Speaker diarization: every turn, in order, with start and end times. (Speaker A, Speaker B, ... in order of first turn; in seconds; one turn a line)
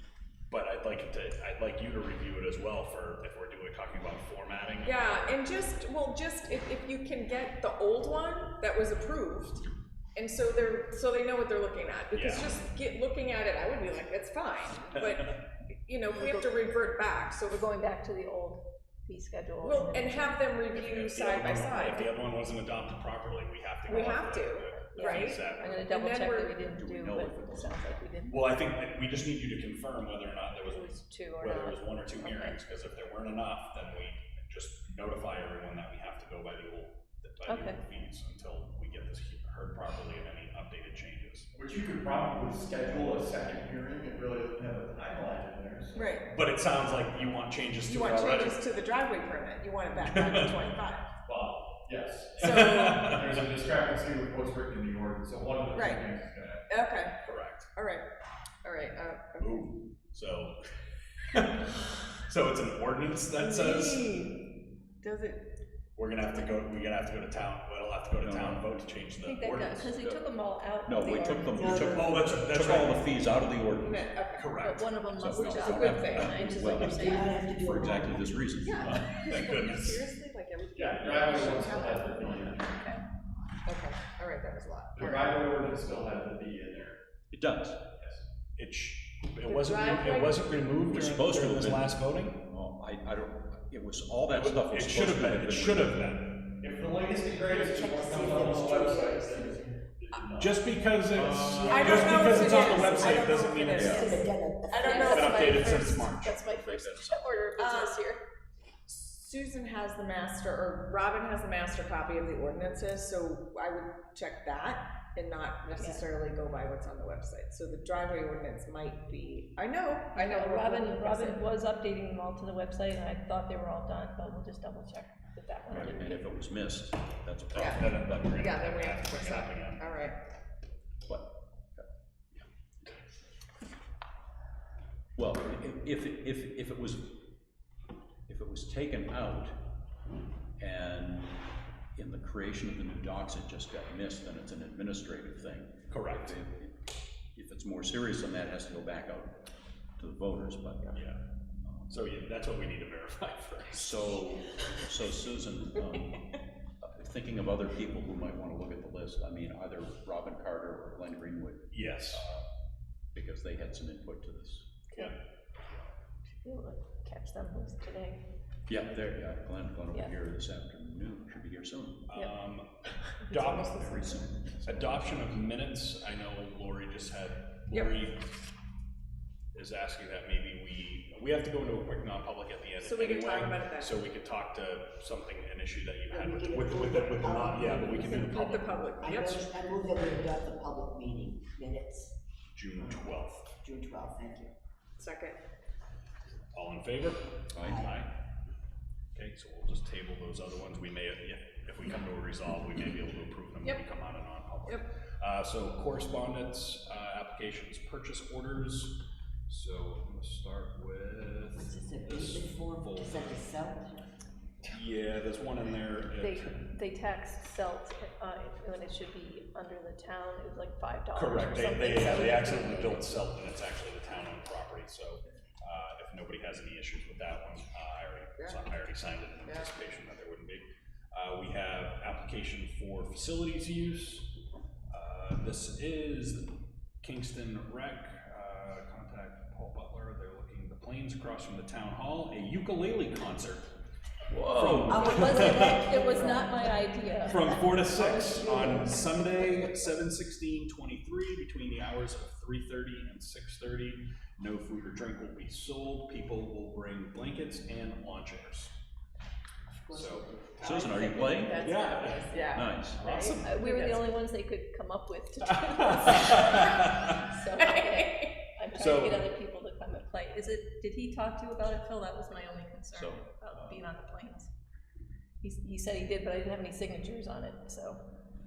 Speaker A: 0.5-5.5
Speaker B: 4.8-9.6
Speaker B: 10.2-17.6
Speaker A: 12.1-12.7
Speaker A: 14.9-15.3
Speaker C: 16.1-20.5
Speaker B: 19.6-22.1
Speaker A: 20.7-25.8
Speaker C: 23.9-28.5
Speaker B: 23.9-26.5
Speaker D: 26.8-27.8
Speaker A: 28.3-41.5
Speaker C: 30.6-32.6
Speaker C: 37.5-37.8
Speaker E: 41.5-46.2
Speaker B: 46.0-46.2
Speaker A: 46.3-48.6
Speaker B: 47.8-51.1
Speaker A: 50.0-50.5
Speaker E: 51.2-56.6
Speaker B: 52.4-53.2
Speaker A: 52.4-53.3
Speaker B: 55.7-56.0
Speaker B: 56.7-57.1
Speaker A: 57.2-57.7
Speaker B: 57.8-58.0
Speaker B: 58.6-59.7
Speaker A: 59.4-60.6
Speaker A: 61.3-64.1
Speaker B: 63.4-64.4
Speaker B: 65.0-65.4
Speaker A: 66.0-69.9
Speaker D: 68.2-68.6
Speaker C: 69.2-72.0
Speaker D: 70.0-70.2
Speaker D: 70.8-74.1
Speaker F: 71.6-72.2
Speaker A: 71.8-73.0
Speaker B: 73.8-74.5
Speaker A: 74.4-74.9
Speaker C: 74.6-77.4
Speaker D: 75.2-79.1
Speaker B: 75.3-76.8
Speaker F: 76.4-78.3
Speaker B: 78.6-82.6
Speaker A: 78.8-80.1
Speaker E: 80.8-82.7
Speaker C: 81.2-83.0
Speaker B: 83.7-85.4
Speaker E: 85.0-87.0
Speaker D: 87.3-87.8
Speaker E: 88.0-88.2
Speaker A: 88.6-92.4
Speaker B: 89.5-90.4
Speaker D: 90.9-96.0
Speaker A: 94.3-96.3
Speaker E: 96.6-100.6
Speaker F: 97.5-99.6
Speaker A: 100.4-104.0
Speaker D: 101.2-102.7
Speaker B: 101.7-104.2
Speaker F: 102.8-103.2
Speaker D: 103.8-104.1
Speaker C: 103.8-108.2
Speaker F: 104.0-105.5
Speaker B: 104.8-105.7
Speaker A: 105.0-107.2
Speaker D: 106.5-107.4
Speaker B: 107.6-108.0
Speaker B: 108.9-121.4
Speaker C: 115.8-116.0
Speaker C: 120.2-126.2
Speaker D: 125.7-128.1
Speaker A: 127.5-129.9
Speaker B: 127.5-130.2
Speaker D: 131.0-131.9
Speaker D: 135.2-137.2
Speaker D: 138.3-139.6
Speaker D: 140.6-141.3
Speaker D: 141.9-151.0
Speaker A: 145.9-146.3
Speaker A: 150.9-151.2
Speaker D: 151.6-151.9
Speaker A: 151.9-154.0
Speaker D: 153.7-162.4
Speaker A: 161.7-162.2
Speaker D: 163.1-164.8
Speaker C: 166.2-168.2
Speaker D: 168.7-172.1
Speaker A: 172.1-172.7
Speaker A: 173.2-174.0
Speaker B: 173.3-174.3
Speaker D: 173.4-175.0
Speaker A: 174.6-178.2
Speaker B: 177.7-178.0
Speaker A: 179.5-188.8
Speaker B: 182.8-184.0
Speaker F: 186.1-188.4
Speaker B: 188.0-189.4
Speaker F: 189.0-192.2
Speaker A: 192.6-193.5
Speaker F: 192.8-194.5
Speaker B: 195.0-195.4
Speaker A: 196.5-198.1
Speaker D: 197.5-197.8
Speaker F: 197.6-197.9
Speaker A: 199.1-209.0
Speaker A: 209.5-213.4
Speaker F: 211.5-214.0
Speaker A: 214.6-216.5
Speaker C: 216.2-223.1
Speaker A: 221.1-234.3
Speaker B: 228.4-228.6
Speaker A: 234.9-236.4
Speaker A: 237.0-243.7
Speaker D: 244.3-245.5
Speaker A: 244.5-246.0
Speaker F: 244.9-246.4
Speaker C: 244.9-249.1
Speaker A: 247.3-258.7
Speaker F: 248.3-248.8
Speaker F: 259.7-260.6
Speaker A: 259.9-260.8
Speaker D: 260.6-261.7
Speaker B: 260.6-264.1
Speaker A: 261.6-263.5
Speaker D: 262.5-263.0
Speaker C: 263.4-274.5
Speaker A: 265.6-267.1
Speaker B: 267.6-268.3
Speaker A: 268.8-269.2
Speaker D: 272.9-273.2
Speaker C: 275.4-278.0